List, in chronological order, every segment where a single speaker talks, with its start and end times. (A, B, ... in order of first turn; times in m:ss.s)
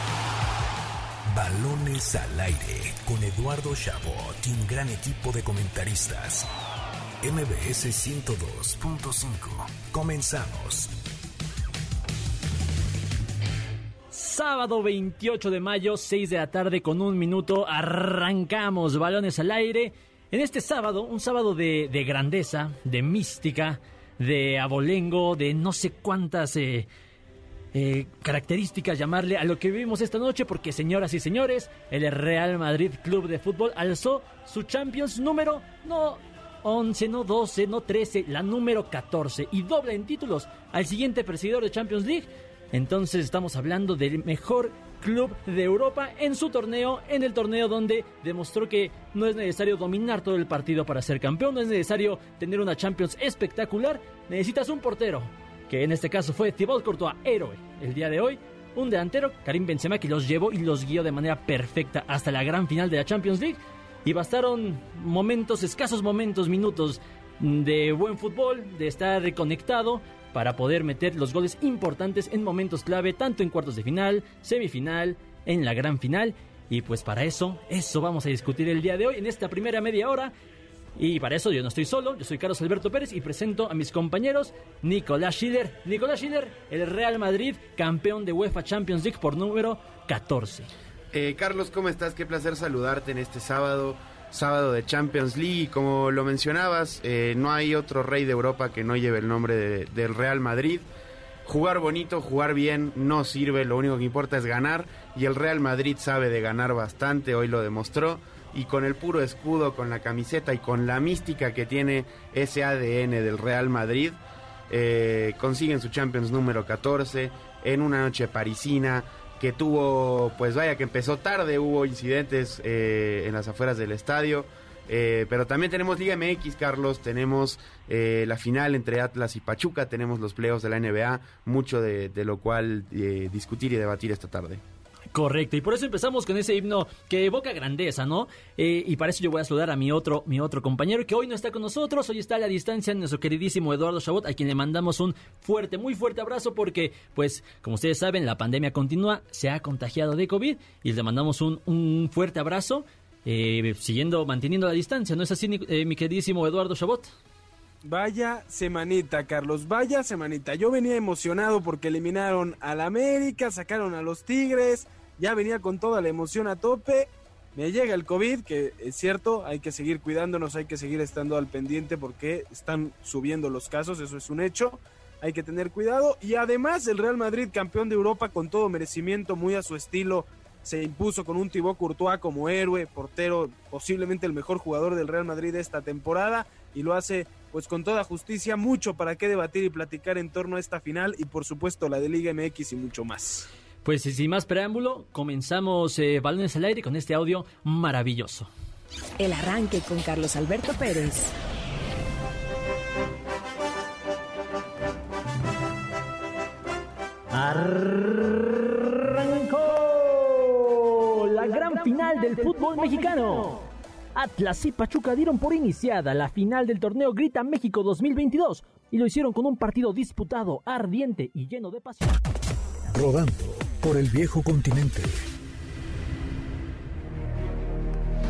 0:01.3-0:06.5 A
0:07.2-0:10.9 A
0:14.1-0:26.9 B
0:27.7-1:20.3 B
1:21.0-1:30.7 B
1:31.1-1:40.9 C
1:41.5-1:54.2 C
1:54.7-2:14.6 C
2:15.1-2:37.1 B
2:37.8-3:13.5 D
3:13.8-3:18.5 B
3:19.2-3:21.3 E
3:27.3-3:33.6 B
3:34.2-3:42.2 B
3:42.9-3:45.2 A